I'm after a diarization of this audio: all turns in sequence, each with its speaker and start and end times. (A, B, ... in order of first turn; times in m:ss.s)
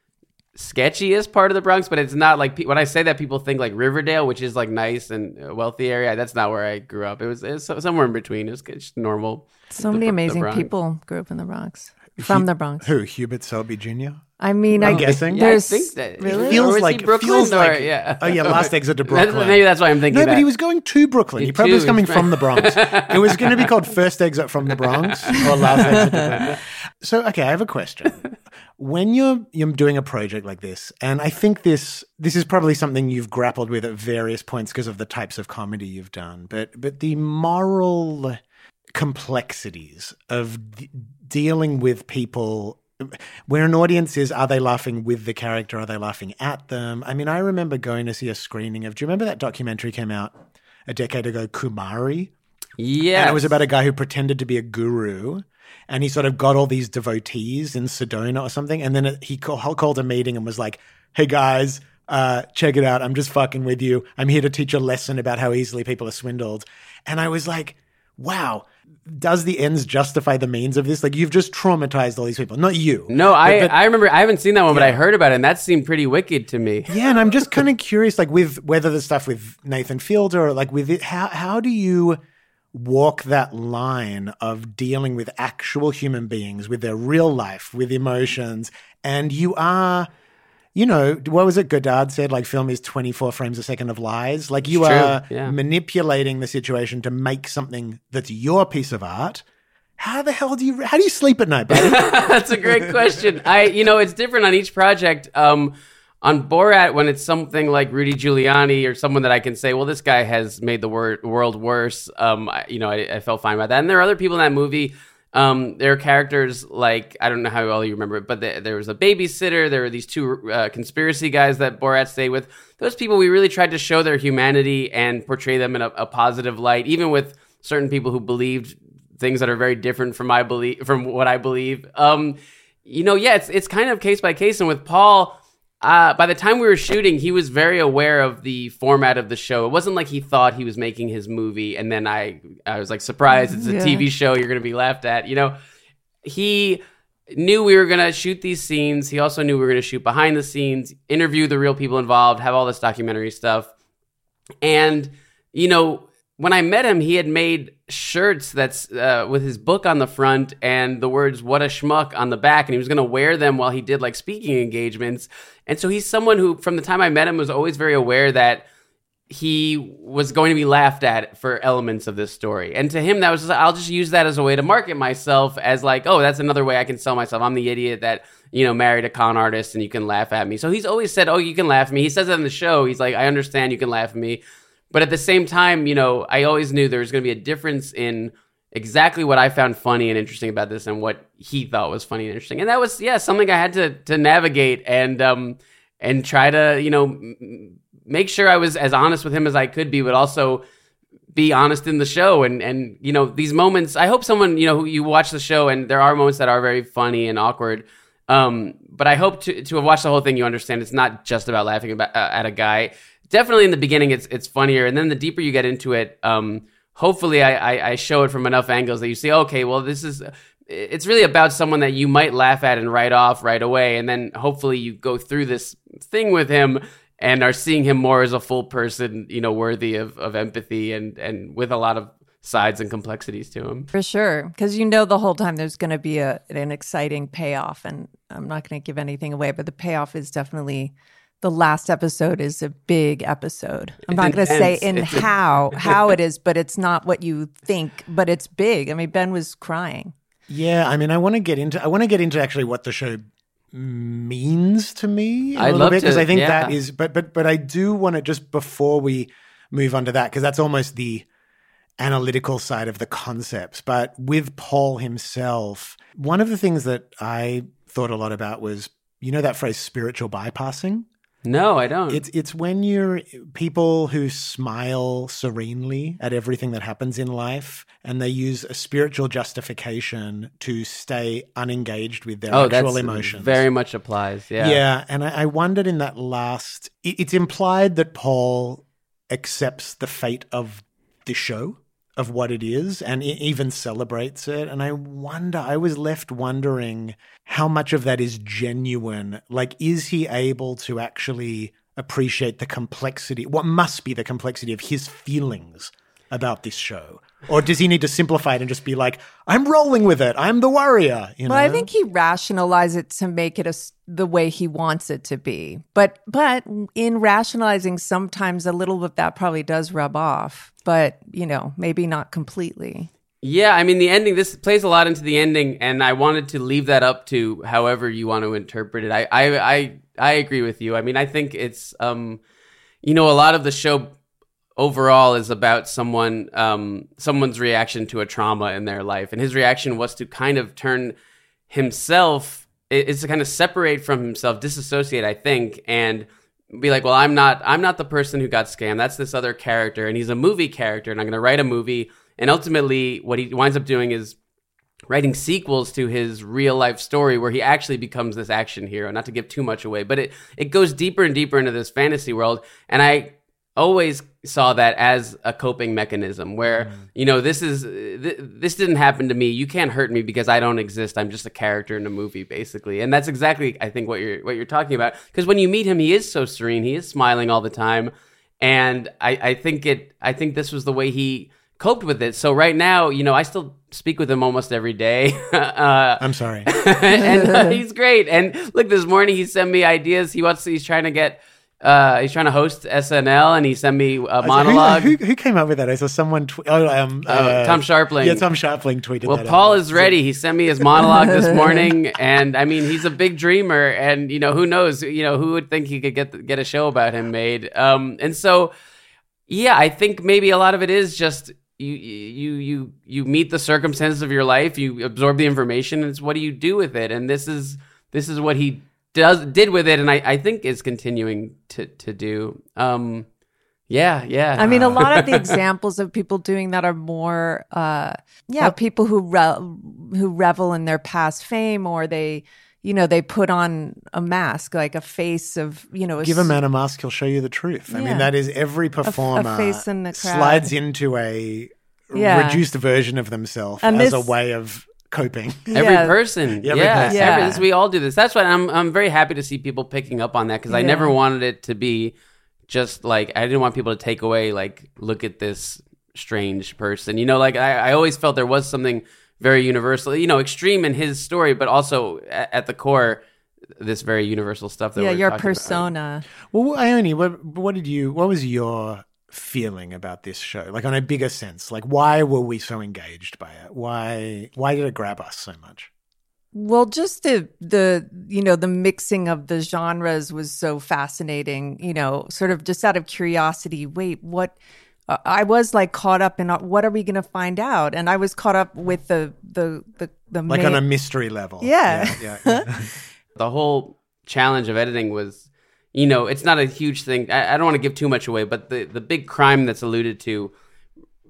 0:00.6-0:10.7 A
0:09.7-0:12.9 B
0:12.2-0:14.2 C
0:14.4-0:16.7 B
0:14.8-0:15.6 C
0:14.8-0:20.5 A
0:16.3-0:28.2 C
0:21.4-0:23.7 A
0:24.8-0:26.6 A
0:28.8-0:38.4 C
0:39.0-0:50.3 C
0:50.9-0:52.3 C
0:52.8-0:53.5 A
0:53.1-1:13.8 C
1:13.1-1:16.9 A
1:14.7-1:15.0 C
1:16.9-1:22.2 C
1:22.7-1:30.1 C
1:30.8-1:39.4 C
1:34.7-1:35.6 A
1:40.0-1:43.2 C
1:41.7-2:25.6 A
2:23.4-2:24.1 B
2:26.2-2:33.7 A
2:34.6-2:48.7 A
2:49.3-3:20.6 A
3:21.3-3:53.9 A
3:53.9-4:10.1 B
4:04.1-4:06.1 A
4:10.5-4:21.3 C
4:15.6-4:16.8 A
4:22.0-4:31.1 C
4:31.4-4:32.2 A
4:32.1-4:43.6 C
4:42.5-4:44.8 A
4:44.6-5:11.9 C
5:11.5-5:23.1 B
5:23.4-5:32.4 A
5:33.0-5:34.2 A
5:34.8-5:41.2 A
5:41.7-5:54.4 A
5:55.1-6:35.2 A
6:26.2-6:26.7 C
6:27.3-6:27.8 B
6:34.4-6:40.2 C
6:37.3-6:38.4 A
6:39.2-6:48.7 A
6:49.5-7:03.3 A
7:03.9-7:05.6 A
7:04.6-7:16.6 B
7:04.6-7:05.1 C
7:16.2-7:25.8 C
7:17.9-7:18.3 B
7:19.0-7:20.7 B
7:22.2-7:22.6 B
7:23.8-7:24.3 B
7:25.7-7:26.2 B
7:25.7-7:32.2 A
7:26.6-7:27.6 C
7:27.0-7:27.6 B
7:30.7-7:31.2 B
7:32.7-7:43.2 A
7:43.8-7:45.9 A
7:45.0-7:46.2 B
7:46.5-7:55.9 C
7:56.5-8:04.6 B
8:05.1-8:10.8 B
8:10.5-8:12.9 C
8:11.6-8:12.7 B
8:13.4-8:15.4 A
8:15.9-8:20.5 A